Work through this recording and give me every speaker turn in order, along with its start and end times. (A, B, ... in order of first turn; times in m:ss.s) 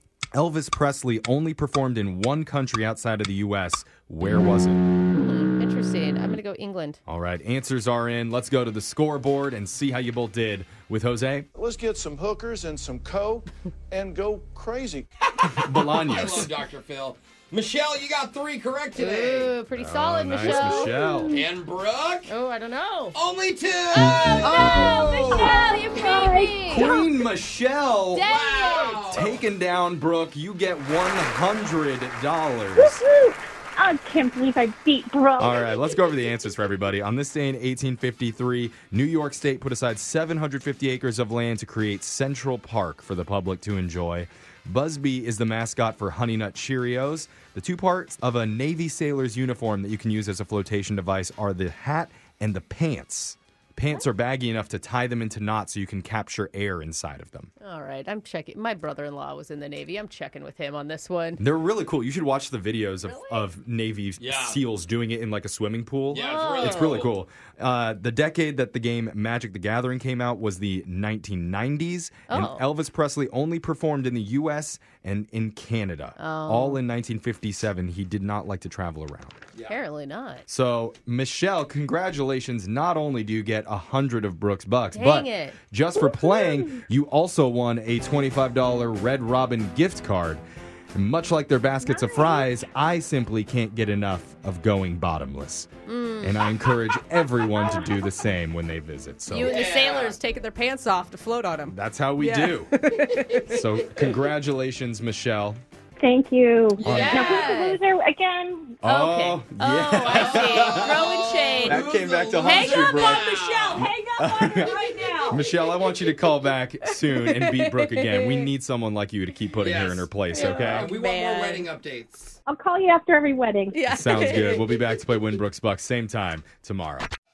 0:00.3-0:04.8 A
0:05.1-0:07.0 B
0:07.1-0:11.5 A
0:11.5-0:15.1 C
0:15.3-0:19.5 D
0:15.5-0:16.5 A
0:18.9-0:20.9 B
0:19.7-0:21.4 A
0:20.5-0:21.4 E
0:21.3-0:22.3 D
0:22.3-0:23.2 B
0:23.1-0:25.1 D
0:24.4-0:26.9 B
0:24.5-0:27.1 E
0:26.7-0:28.3 A
0:28.1-0:29.1 B
0:28.2-0:29.4 D
0:29.1-0:33.0 A
0:32.8-0:35.8 E
0:35.4-0:57.5 A
0:57.6-1:01.4 B
1:01.4-1:19.4 A
1:04.2-1:04.6 D
1:06.1-1:07.1 D
1:06.1-1:07.0 B
1:12.3-1:12.7 B
1:16.2-1:16.8 B
1:19.7-1:20.4 B
1:20.5-1:35.7 A
1:24.9-1:25.6 B
1:26.0-1:26.8 E
1:31.8-1:32.5 E
1:35.8-1:36.4 B
1:36.2-1:39.6 A
1:37.5-1:38.0 E
1:39.3-1:43.6 B
1:39.4-1:40.2 D
1:41.7-1:42.7 A
1:43.5-1:45.6 A
1:46.0-1:48.8 E
1:46.8-1:47.5 D
1:46.8-1:47.2 A
1:46.8-1:47.8 B
1:48.8-2:00.9 A
1:48.8-1:51.8 B
1:50.0-1:53.9 D
1:52.4-1:55.2 B
1:54.7-1:55.4 D
1:57.1-1:58.5 B
1:59.6-2:02.4 D
2:00.3-2:01.7 B
2:02.5-2:03.8 E
2:03.7-2:05.0 B
2:03.9-2:07.1 A